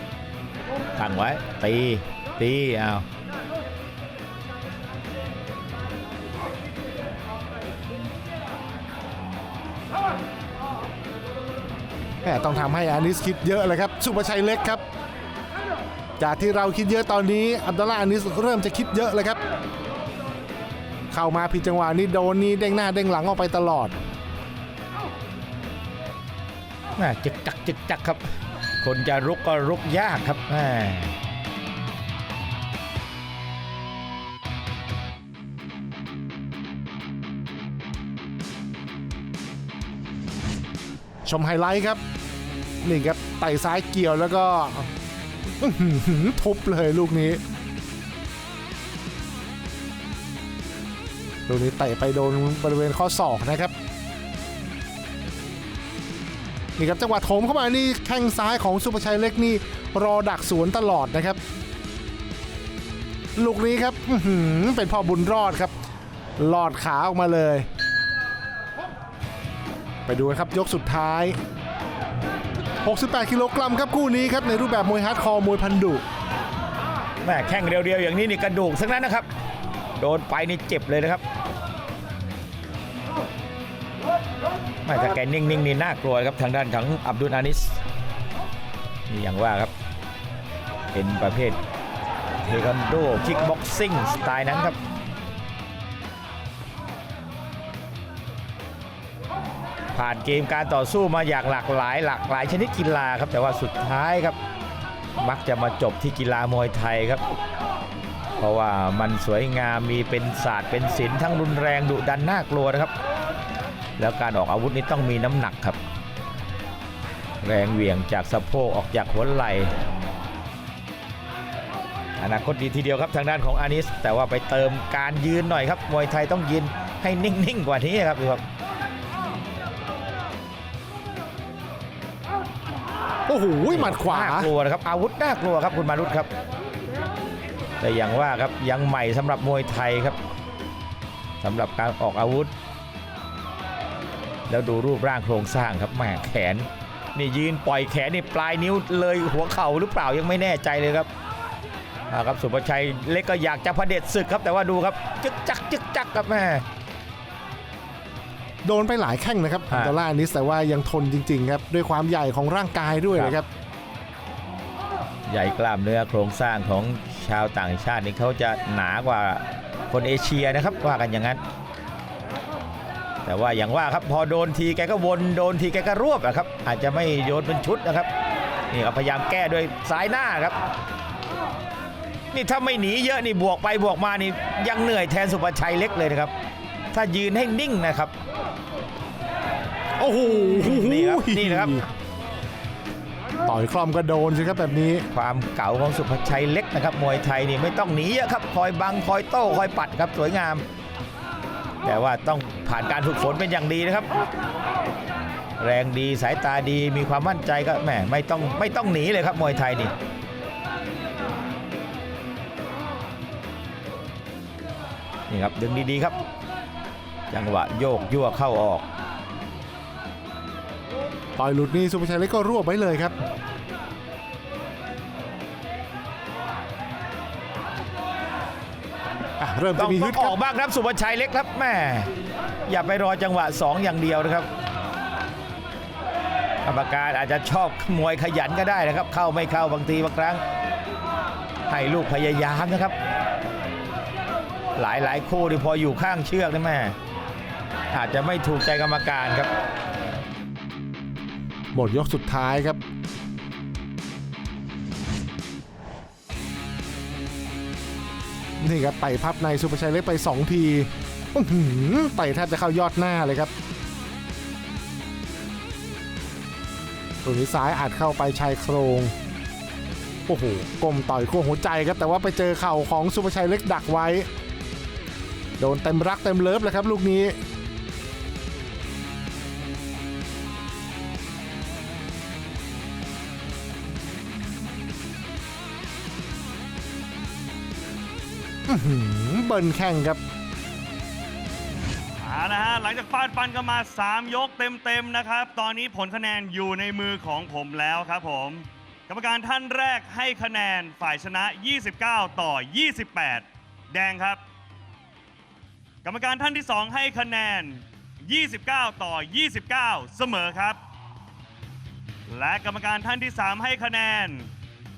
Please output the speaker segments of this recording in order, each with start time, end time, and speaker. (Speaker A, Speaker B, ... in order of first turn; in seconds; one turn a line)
Speaker A: 0.9-3.0
Speaker B: 12.2-14.8
Speaker B: 16.2-19.4
Speaker B: 21.1-23.9
Speaker A: 27.0-28.2
Speaker A: 28.8-31.1
Speaker B: 41.2-42.0
Speaker B: 42.8-44.9
Speaker B: 45.6-47.4
Speaker B: 51.5-53.7
Speaker B: 56.8-61.4
Speaker B: 63.4-65.7
Speaker B: 66.4-67.7
Speaker B: 70.1-71.4
Speaker B: 72.8-76.0
Speaker A: 77.2-79.3
Speaker A: 80.0-81.2
Speaker A: 84.8-87.8
Speaker A: 89.1-89.7
Speaker A: 90.9-91.6
Speaker A: 92.4-94.8
Speaker A: 99.9-104.3
Speaker A: 105.2-107.2
Speaker A: 108.4-112.9
Speaker A: 114.0-115.8
Speaker A: 117.4-119.7
Speaker A: 122.2-128.4
Speaker B: 133.3-134.5
Speaker A: 133.7-136.3
Speaker A: 137.8-140.2
Speaker A: 141.4-142.5
Speaker A: 144.5-151.1
Speaker A: 152.1-156.6
Speaker B: 158.6-163.5
Speaker A: 159.7-159.9
Speaker A: 165.3-171.4
Speaker A: 173.2-178.1
Speaker A: 178.7-180.6
Speaker A: 182.3-186.3
Speaker A: 186.9-188.1
Speaker B: 190.0-191.8
Speaker A: 190.6-191.8
Speaker B: 193.4-195.1
Speaker A: 195.1-200.6
Speaker A: 201.8-204.1
Speaker A: 205.6-209.9
Speaker A: 215.3-216.2
Speaker A: 217.3-218.8
Speaker B: 221.4-223.1
Speaker B: 229.4-230.3
Speaker A: 229.8-232.1
Speaker A: 232.7-234.5
Speaker A: 236.6-240.4
Speaker A: 241.7-242.9
Speaker A: 244.7-246.9
Speaker A: 247.9-249.5
Speaker B: 251.7-252.8
Speaker B: 258.6-263.5
Speaker B: 267.2-269.1
Speaker B: 270.3-274.3
Speaker B: 275.6-277.4
Speaker B: 288.7-290.2
Speaker C: 292.2-304.4
Speaker C: 306.0-310.8
Speaker C: 312.3-314.5